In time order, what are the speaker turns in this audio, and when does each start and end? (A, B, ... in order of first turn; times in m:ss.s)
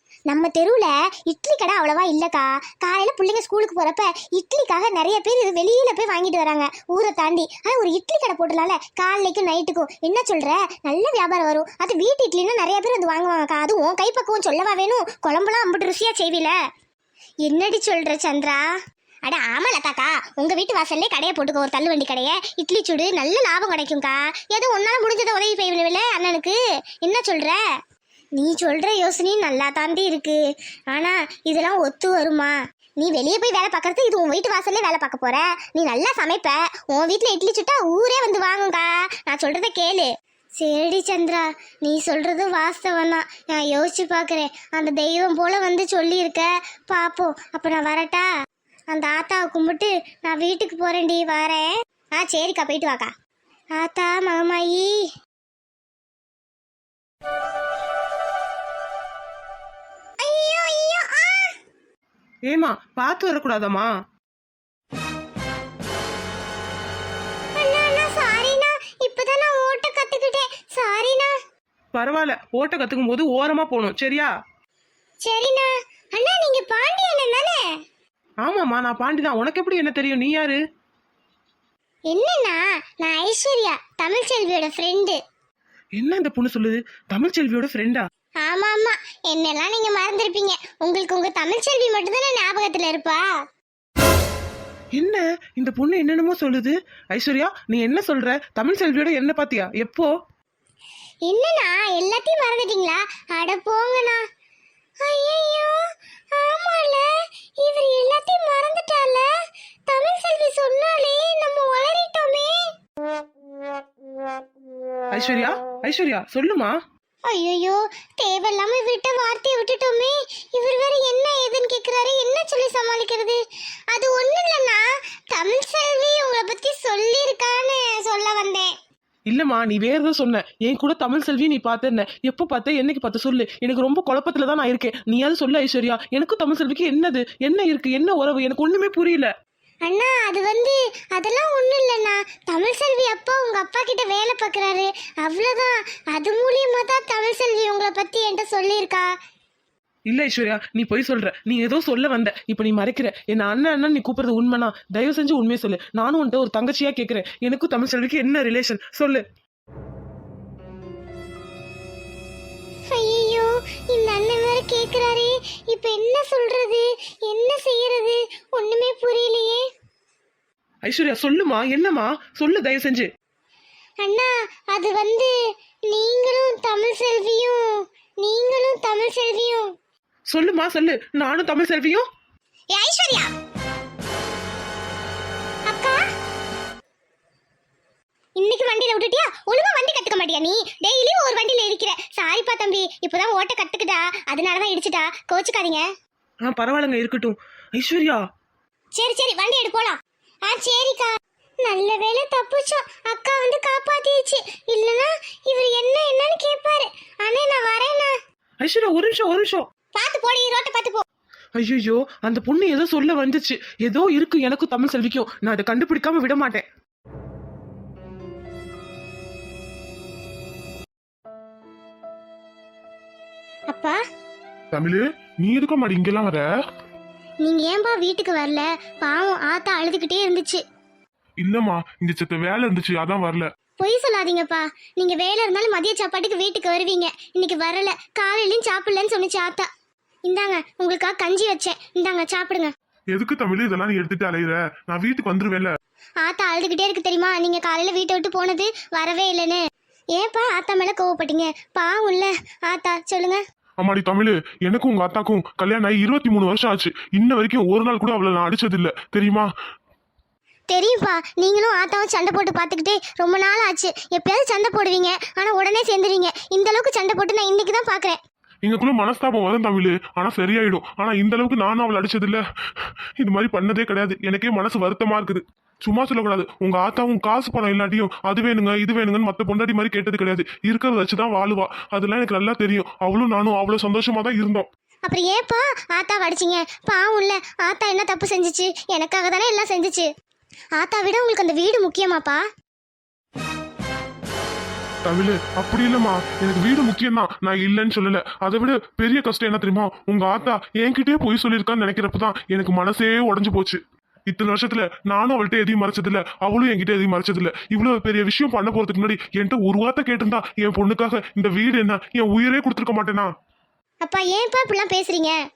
0:00.3-0:16.5 A
0:17.4-0:18.7 A
0:19.2-0:27.6 A
0:28.4-0:30.4 A
0:30.9-0:48.3 A
0:48.9-0:53.1 A
0:53.7-0:55.0 A
1:00.2-1:01.5 A
1:02.5-1:03.9 B
1:07.6-1:11.3 A
1:11.9-1:14.3 B
1:15.2-1:17.6 A
1:18.4-1:20.6 B
1:22.1-1:25.2 A
1:26.0-1:28.1 B
1:28.4-1:33.3 A
1:35.0-1:40.1 B
1:41.2-1:44.2 A
1:45.0-1:45.8 A
1:46.3-1:47.1 A
1:47.6-1:49.3 A
1:49.9-1:52.7 A
1:55.1-1:56.8 B
1:57.3-2:03.4 A
2:03.9-2:08.7 A
2:09.3-2:19.3 B
2:19.8-2:29.1 A
2:30.1-2:39.2 B
2:42.9-2:49.6 A
2:50.8-2:53.1 B
2:54.0-2:55.3 A
2:55.9-2:57.6 A
2:58.2-2:59.7 A
3:00.3-3:02.1 B
3:02.7-3:03.3 A
3:05.7-3:06.0 A
3:08.4-3:15.8 A
3:16.4-3:18.2 B
3:19.0-3:21.1 A
3:21.6-3:28.1 A
3:28.6-3:29.6 B
3:30.0-3:31.0 A
3:31.6-3:36.6 B
3:43.7-3:44.0 A
3:44.7-3:46.4 C
3:47.4-3:50.6 A
3:51.4-3:53.5 C
3:53.8-3:59.7 A
4:00.3-4:02.7 A
4:03.1-4:05.7 C
4:06.2-4:09.6 A
4:10.1-4:13.4 A
4:13.8-4:19.5 C
4:20.7-4:28.2 A
4:28.6-4:44.7 C
4:45.0-4:50.1 A
4:50.8-4:52.4 A
4:55.0-5:13.3 C
5:14.0-5:15.4 A